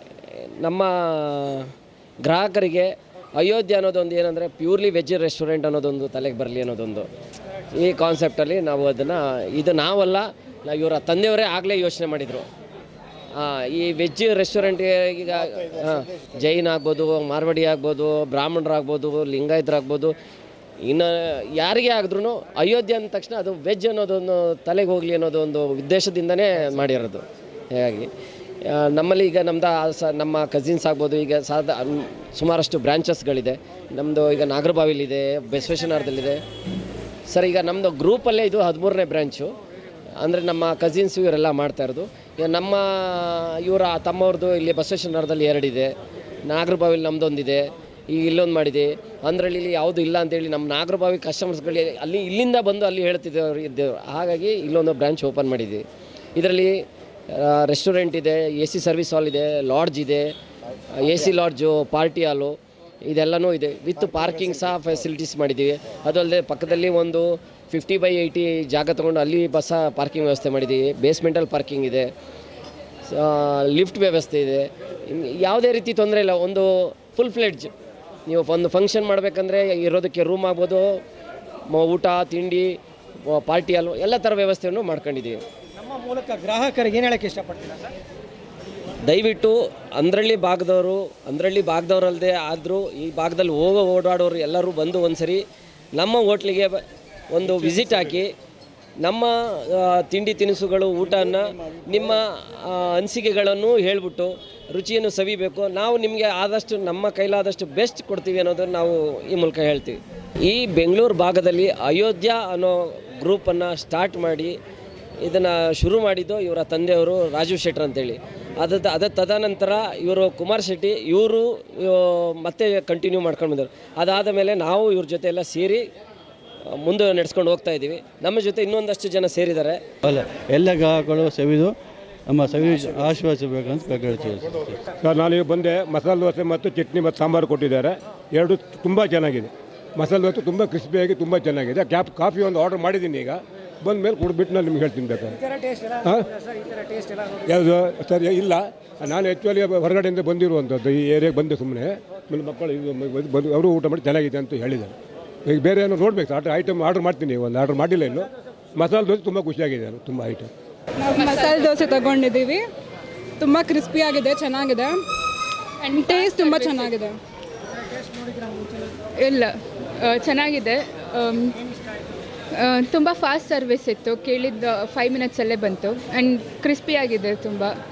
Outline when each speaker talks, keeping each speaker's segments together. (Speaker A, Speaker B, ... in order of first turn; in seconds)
Speaker A: 0.3-1.7, 2.2-7.1, 7.8-12.5, 13.4-20.1, 20.8-28.1, 28.6-36.4, 37.3-39.5, 40.2-45.9, 46.5-55.8, 56.4-56.7, 57.3-60.3, 61.0-72.1, 73.1-77.7, 78.3-80.9, 81.7-82.8, 83.3-85.4, 89.1-95.4, 96.0-96.8, 97.3-98.3, 99.0-114.5, 115.2-125.8, 126.8-129.8
Speaker B: 85.8-87.9, 146.8-147.2
Speaker C: 130.0-131.8, 132.3-134.8
Speaker D: 135.0-145.4, 146.0-146.3, 147.5-160.5
Speaker E: 161.0-162.6, 163.4-165.0, 165.8-167.2
Speaker F: 165.9-166.9, 169.2-171.6, 172.6-177.7